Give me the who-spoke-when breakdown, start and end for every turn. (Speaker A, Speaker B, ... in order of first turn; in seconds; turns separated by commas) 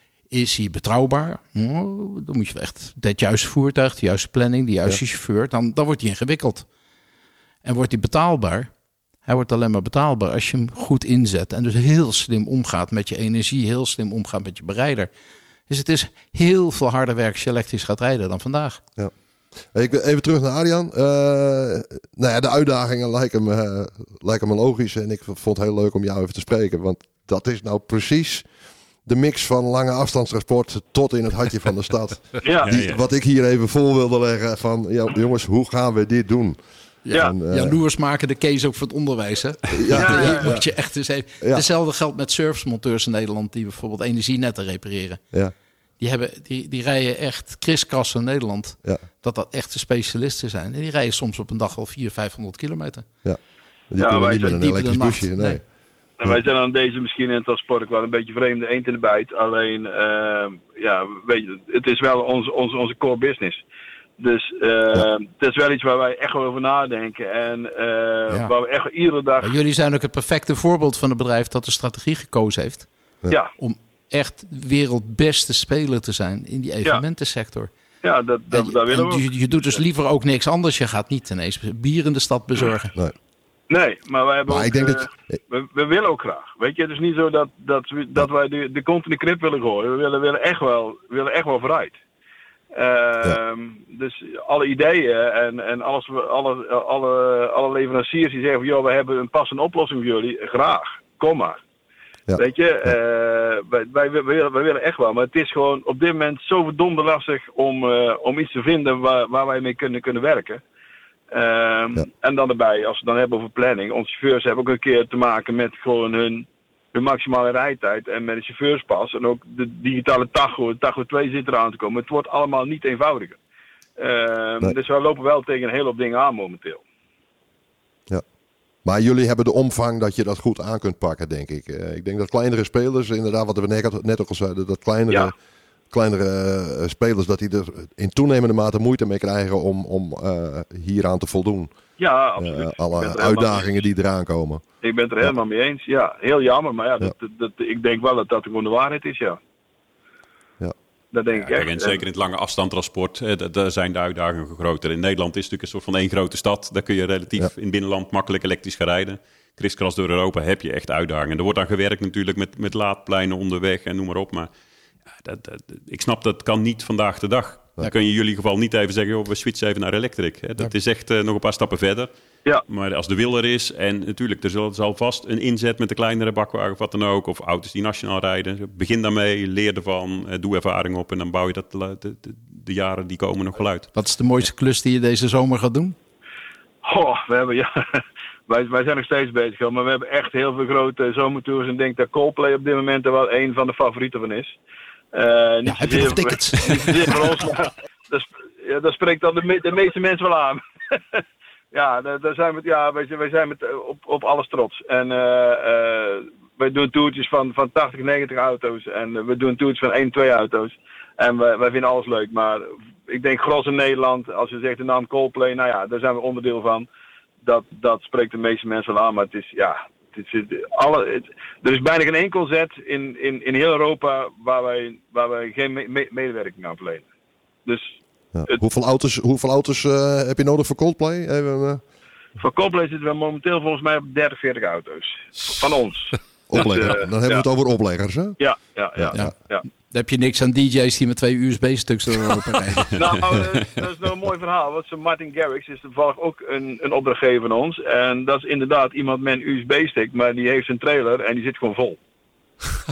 Speaker A: 0.3-6.7, Speaker A: 7.6-8.7, Speaker A: 9.2-15.1, Speaker A: 15.7-18.8, Speaker B: 19.7-28.4, Speaker B: 29.0-36.6, Speaker C: 32.4-32.7, Speaker D: 32.6-33.0, Speaker A: 37.0-45.2, Speaker B: 37.1-37.8, Speaker B: 39.7-40.6, Speaker C: 40.0-40.4, Speaker A: 46.0-53.1, Speaker B: 53.9-55.6, Speaker C: 54.0-54.6, Speaker A: 54.4-55.6, Speaker C: 56.2-63.6, Speaker C: 64.2-69.5, Speaker A: 69.4-72.9, Speaker A: 73.6-77.7, Speaker C: 78.0-79.2, Speaker A: 78.5-83.0, Speaker C: 83.7-91.9, Speaker B: 84.5-85.4, Speaker C: 92.7-101.6, Speaker B: 102.3-102.9, Speaker C: 102.3-110.6, Speaker C: 111.3-123.4, Speaker C: 124.0-126.8, Speaker B: 128.8-135.3, Speaker B: 135.9-141.7, Speaker C: 142.0-143.7, Speaker B: 142.4-144.6, Speaker C: 144.8-149.4, Speaker C: 151.1-152.0, Speaker D: 151.3-164.5, Speaker D: 165.1-172.1, Speaker D: 172.6-183.9, Speaker A: 183.9-185.9, Speaker C: 186.8-194.5, Speaker C: 195.1-216.9, Speaker A: 195.7-197.2, Speaker C: 217.4-227.1, Speaker C: 227.6-227.9, Speaker B: 228.3-231.8, Speaker C: 232.4-237.4, Speaker B: 236.5-238.4, Speaker C: 238.4-239.6, Speaker B: 238.9-239.3, Speaker A: 239.9-243.0, Speaker C: 242.9-252.0